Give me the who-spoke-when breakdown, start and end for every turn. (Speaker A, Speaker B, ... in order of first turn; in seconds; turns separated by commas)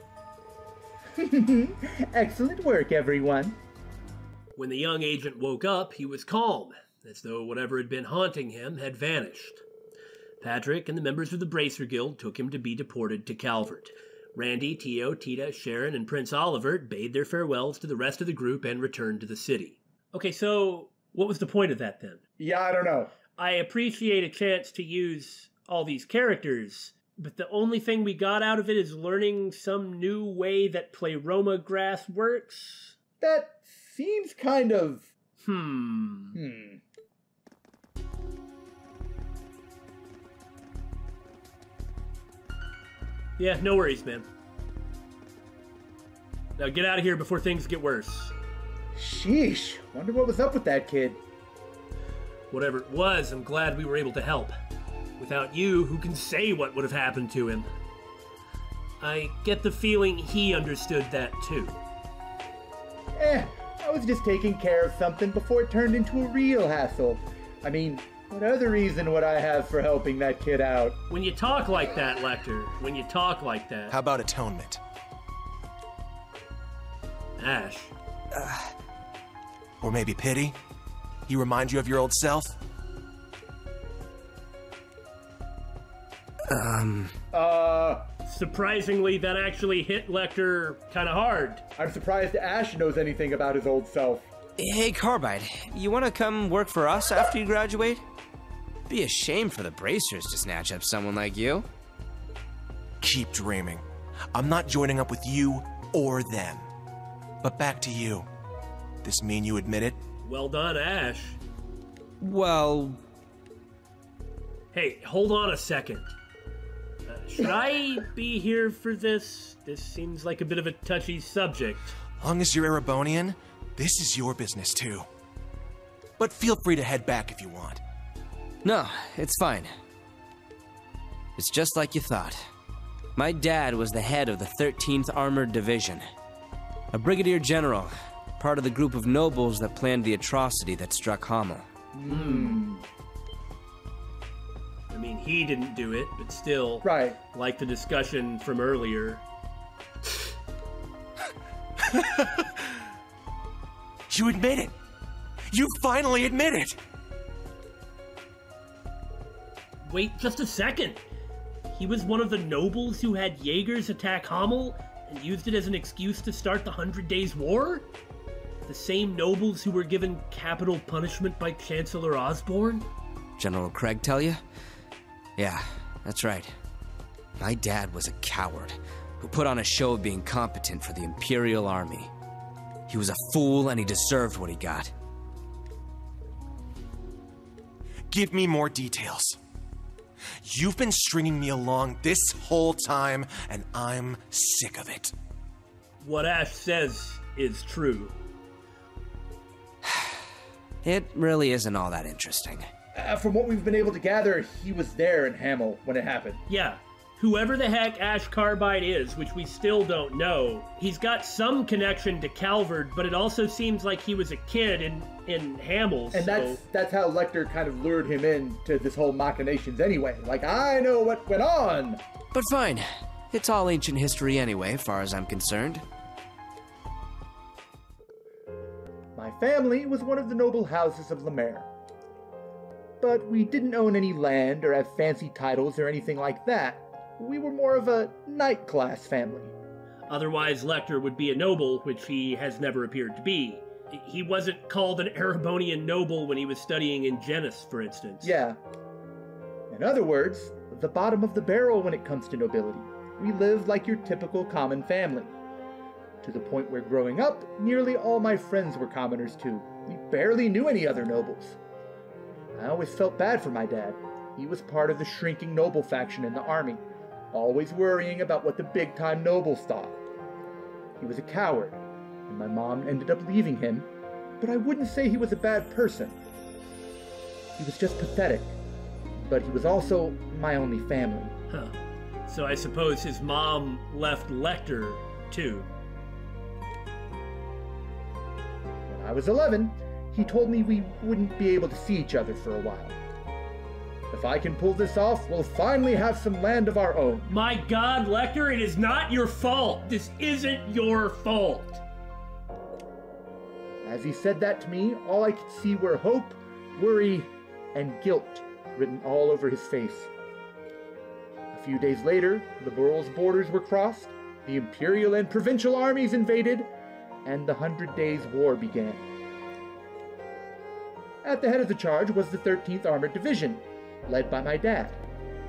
Speaker A: 1.2-3.6, Speaker B: 4.5-9.6, Speaker B: 10.4-22.2, Speaker A: 22.4-23.1, Speaker B: 23.4-33.0, Speaker A: 33.2-35.1, Speaker B: 35.4-36.4, Speaker A: 36.3-36.8, Speaker B: 43.4-44.3, Speaker B: 46.6-48.3, Speaker A: 48.9-51.2, Speaker B: 52.5-54.5, Speaker B: 55.2-57.7, Speaker B: 59.0-61.8, Speaker A: 63.1-71.0, Speaker B: 71.1-74.0, Speaker C: 73.9-74.8, Speaker B: 77.4-77.9, Speaker C: 79.8-80.6, Speaker C: 81.3-82.6, Speaker D: 86.5-87.1, Speaker A: 87.3-88.1, Speaker B: 88.2-91.6, Speaker A: 91.8-94.3, Speaker D: 94.6-98.0, Speaker D: 98.9-101.7, Speaker C: 103.0-106.7, Speaker C: 107.4-108.3, Speaker C: 109.0-110.0, Speaker B: 110.2-111.4, Speaker D: 112.2-113.0, Speaker B: 114.7-116.1, Speaker B: 117.1-122.0, Speaker C: 122.2-125.1, Speaker C: 126.2-127.8, Speaker D: 128.6-129.7, Speaker D: 131.4-132.4, Speaker D: 133.2-136.0, Speaker D: 136.9-141.6, Speaker A: 141.9-142.8, Speaker B: 142.1-142.6, Speaker B: 144.9-149.2, Speaker A: 146.8-147.2, Speaker C: 151.8-152.5, Speaker C: 154.1-154.7, Speaker C: 155.5-156.8, Speaker B: 159.8-161.0, Speaker B: 161.7-167.9, Speaker B: 168.7-172.8, Speaker D: 173.4-174.4, Speaker D: 175.4-176.5, Speaker D: 177.4-182.1, Speaker D: 182.9-184.9, Speaker C: 188.1-189.4, Speaker C: 190.4-195.1, Speaker B: 196.0-198.1, Speaker D: 199.8-200.1, Speaker D: 200.8-202.7, Speaker A: 202.9-206.4, Speaker B: 206.5-216.6, Speaker A: 216.1-222.0, Speaker D: 222.3-225.8, Speaker A: 229.2-231.7, Speaker A: 233.0-239.5, Speaker B: 240.1-248.4, Speaker A: 248.2-248.6, Speaker A: 249.7-255.3, Speaker A: 256.2-261.6, Speaker A: 262.5-270.0, Speaker A: 271.0-273.9, Speaker A: 274.4-276.2, Speaker A: 277.6-278.5, Speaker A: 279.2-281.3, Speaker B: 282.3-285.7, Speaker A: 288.9-293.0, Speaker A: 294.1-297.3, Speaker B: 297.3-301.8, Speaker A: 303.8-310.1, Speaker A: 311.5-316.7, Speaker A: 317.2-319.1, Speaker A: 321.2-325.0